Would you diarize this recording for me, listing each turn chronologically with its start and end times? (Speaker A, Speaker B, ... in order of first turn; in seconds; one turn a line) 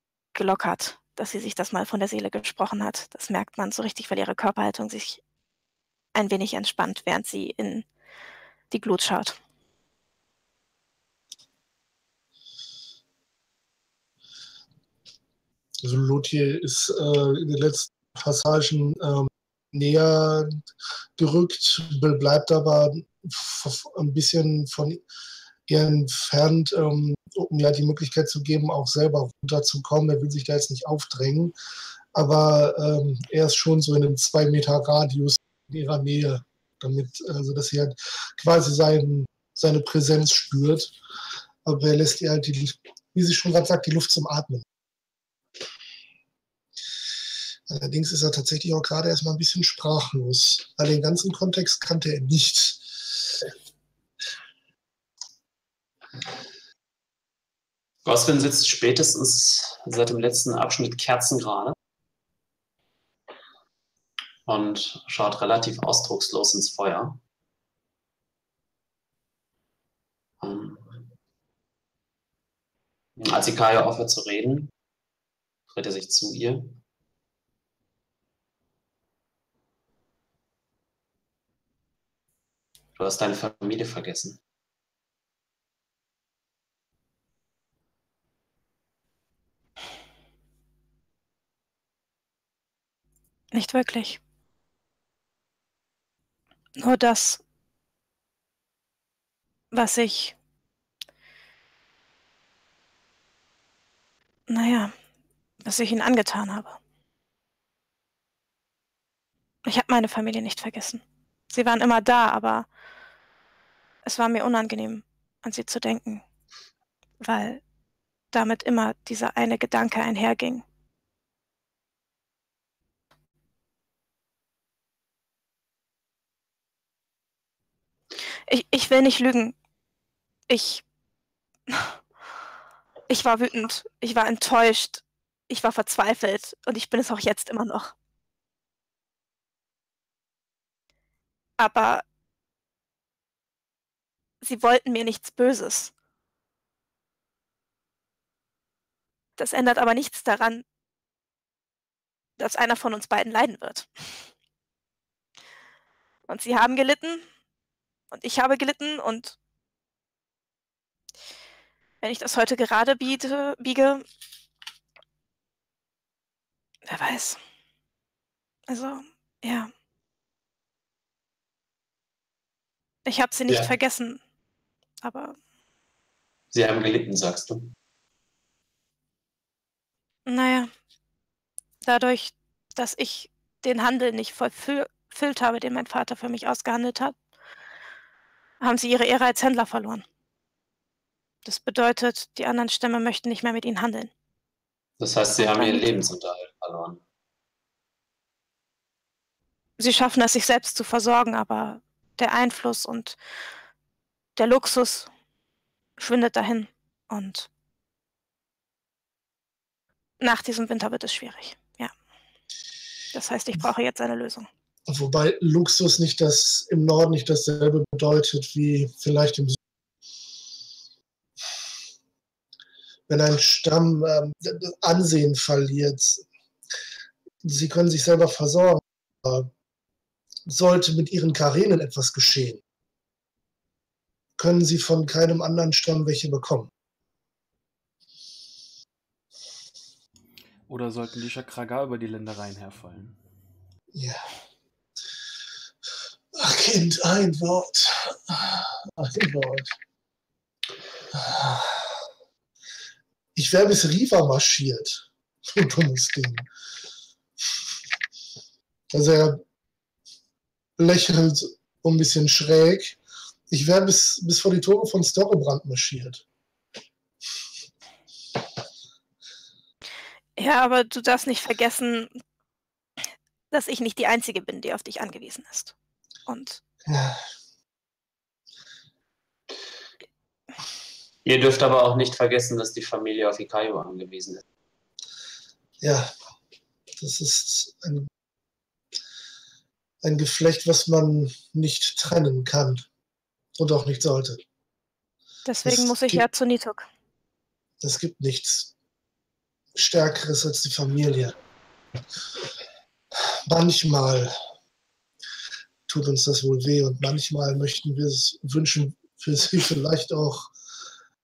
Speaker A: 0.3-5.2
Speaker A: 6.1-7.9
Speaker A: 8.7-9.4
Speaker B: 15.8-20.6
Speaker B: 21.2-25.0
Speaker B: 25.7-31.6
Speaker B: 32.1-41.0
Speaker B: 41.6-44.7
Speaker B: 47.7-53.4
Speaker C: 58.0-61.8
Speaker C: 64.5-67.2
Speaker C: 70.4-71.1
Speaker C: 73.2-74.7
Speaker C: 75.7-76.8
Speaker C: 83.0-84.4
Speaker A: 93.5-94.2
Speaker A: 96.8-97.4
Speaker A: 99.7-100.4
Speaker A: 104.5-104.9
Speaker A: 105.6-106.8
Speaker A: 109.7-112.7
Speaker A: 114.0-116.2
Speaker A: 117.2-117.6
Speaker A: 118.3-120.6
Speaker A: 128.5-129.6
Speaker A: 130.5-130.8
Speaker A: 133.1-137.9
Speaker A: 141.6-142.1
Speaker A: 144.4-145.9
Speaker A: 149.4-150.6
Speaker A: 152.4-153.9
Speaker A: 156.3-157.2
Speaker A: 158.1-159.4
Speaker A: 162.0-164.0
Speaker A: 166.9-167.4
Speaker A: 168.7-169.7
Speaker A: 173.1-174.2
Speaker A: 175.0-175.3
Speaker C: 176.5-177.7
Speaker A: 180.3-180.7
Speaker A: 181.8-187.2
Speaker A: 188.6-190.1
Speaker A: 191.4-194.1
Speaker C: 195.0-197.0
Speaker A: 195.4-195.8
Speaker A: 199.8-203.2
Speaker A: 204.4-205.1
Speaker A: 206.0-207.5
Speaker A: 210.2-211.9
Speaker A: 213.1-214.5
Speaker B: 214.9-219.6
Speaker B: 223.1-226.2
Speaker B: 227.4-229.5
Speaker B: 230.5-232.6
Speaker B: 234.4-236.7
Speaker D: 240.7-243.2
Speaker B: 243.9-244.3
Speaker B: 246.3-249.7
Speaker B: 251.1-252.0
Speaker B: 253.3-256.5
Speaker B: 258.9-259.4
Speaker B: 260.8-263.0
Speaker B: 263.5-266.2
Speaker A: 270.4-272.1
Speaker A: 273.5-275.7
Speaker A: 276.3-276.6
Speaker B: 276.9-277.2
Speaker C: 281.2-284.4
Speaker B: 285.8-286.1
Speaker B: 287.0-288.1
Speaker B: 290.0-292.9
Speaker B: 293.6-294.4
Speaker A: 295.5-296.9
Speaker B: 295.6-296.2
Speaker B: 297.8-298.7
Speaker B: 299.8-301.4
Speaker B: 303.5-304.4
Speaker B: 305.9-310.5